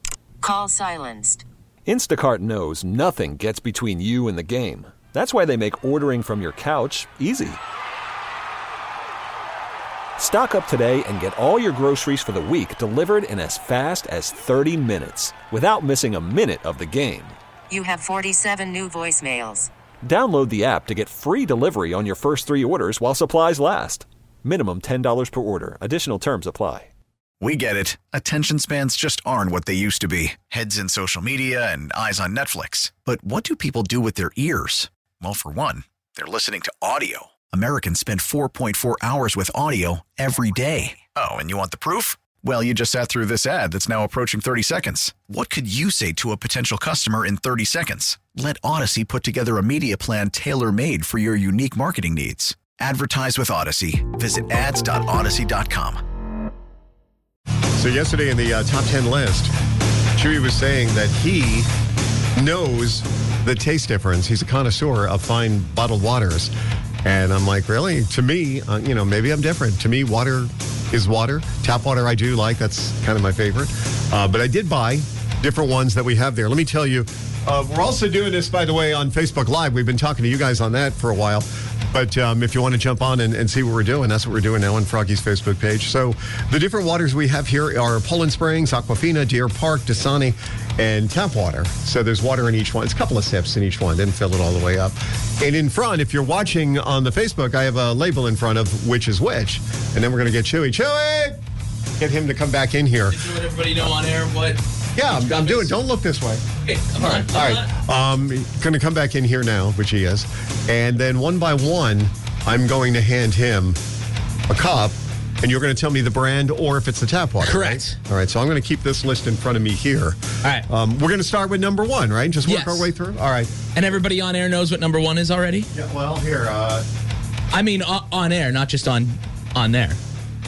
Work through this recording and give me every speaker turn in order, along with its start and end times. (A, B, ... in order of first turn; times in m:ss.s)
0:00.4-0:01.4 A
0:01.8-0:07.6 B
0:10.2-0:17.4 B
0:17.7-0:19.7 A
0:20.0-0:26.9 B
0:27.4-0:56.0 C
0:57.8-0:59.5 D
1:00.2-1:01.7 D
1:02.3-1:06.5 D
1:07.0-1:41.4 D
1:42.0-1:43.2 D
1:43.1-1:45.8 E
1:45.0-1:46.4 D
1:46.6-1:47.7 E
1:47.0-1:53.8 D
1:54.5-2:03.5 D
1:57.4-1:58.0 E
2:02.4-2:02.9 E
2:03.7-2:05.7 E
2:05.7-2:06.8 D
2:07.5-2:10.0 E